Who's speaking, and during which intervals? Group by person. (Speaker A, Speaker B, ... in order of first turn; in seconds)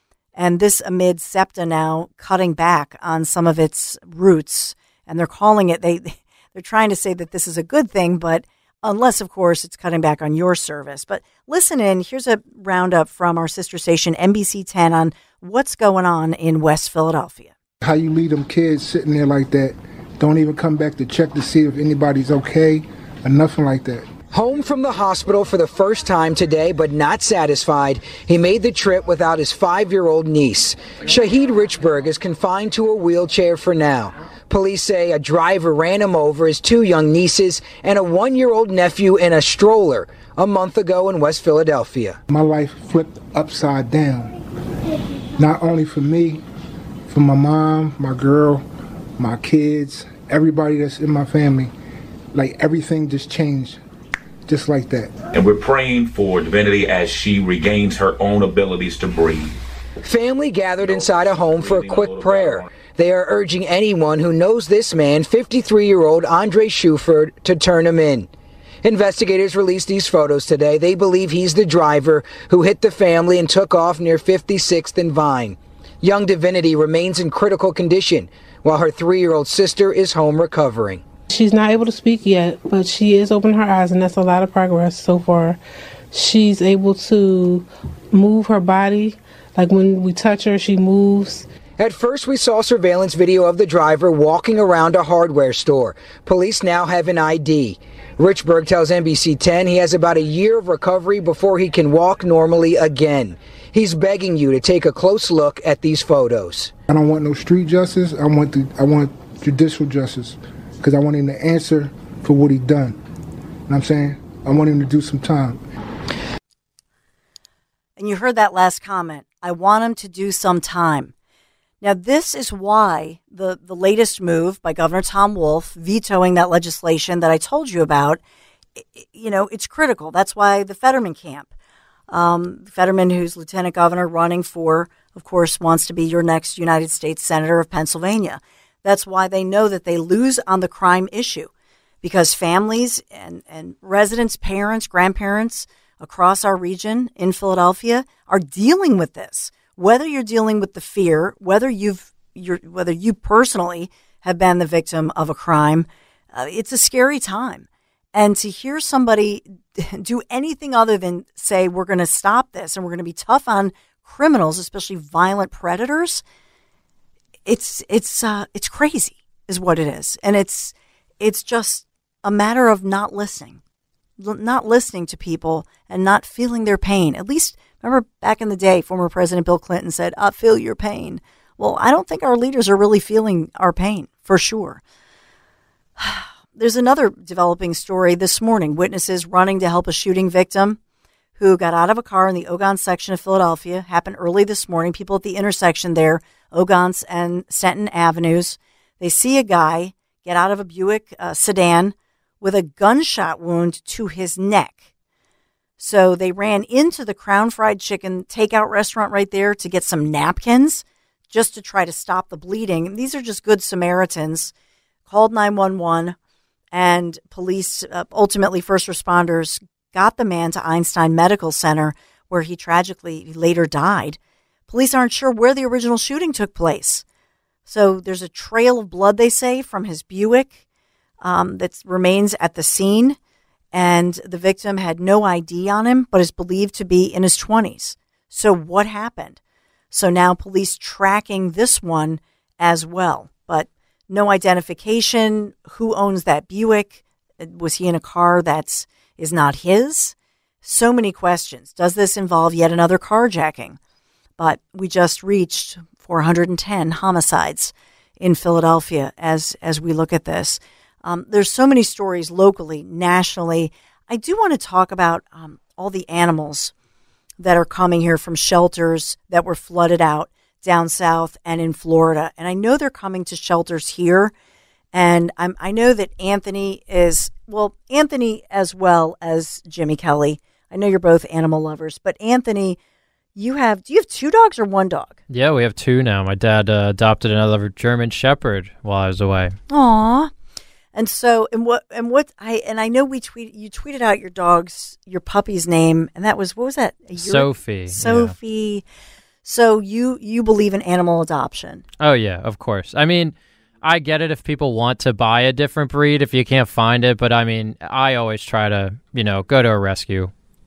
Speaker A: 0.3-17.5, 118.0-121.1, 121.8-128.2, 128.8-131.5, 132.1-141.5, 142.0-166.2, 167.4-173.6, 174.2-184.8, 186.0-190.8, 191.4-204.8, 205.8-214.5, 215.1-216.2, 216.7-227.0, 227.7-230.6, 231.2-233.2, 233.7-239.4, 239.9-253.8, 254.4-266.7, 267.4-274.3, 274.9-282.8, 283.4-285.2, 289.7-290.3, 290.9-298.8, 299.4-301.8
Speaker B: 17.8-24.1, 42.3-44.3, 45.4-46.4, 47.1-48.6, 49.2-51.7, 52.3-53.8, 54.5-55.1, 106.9-113.0, 113.7-115.6
Speaker C: 24.3-42.2, 60.0-68.3, 68.8-81.0, 91.8-106.7
Speaker D: 55.3-59.5, 60.8-62.7
Speaker E: 81.3-85.6, 86.1-91.5
Speaker F: 285.3-289.6, 297.2-298.3, 302.0-310.3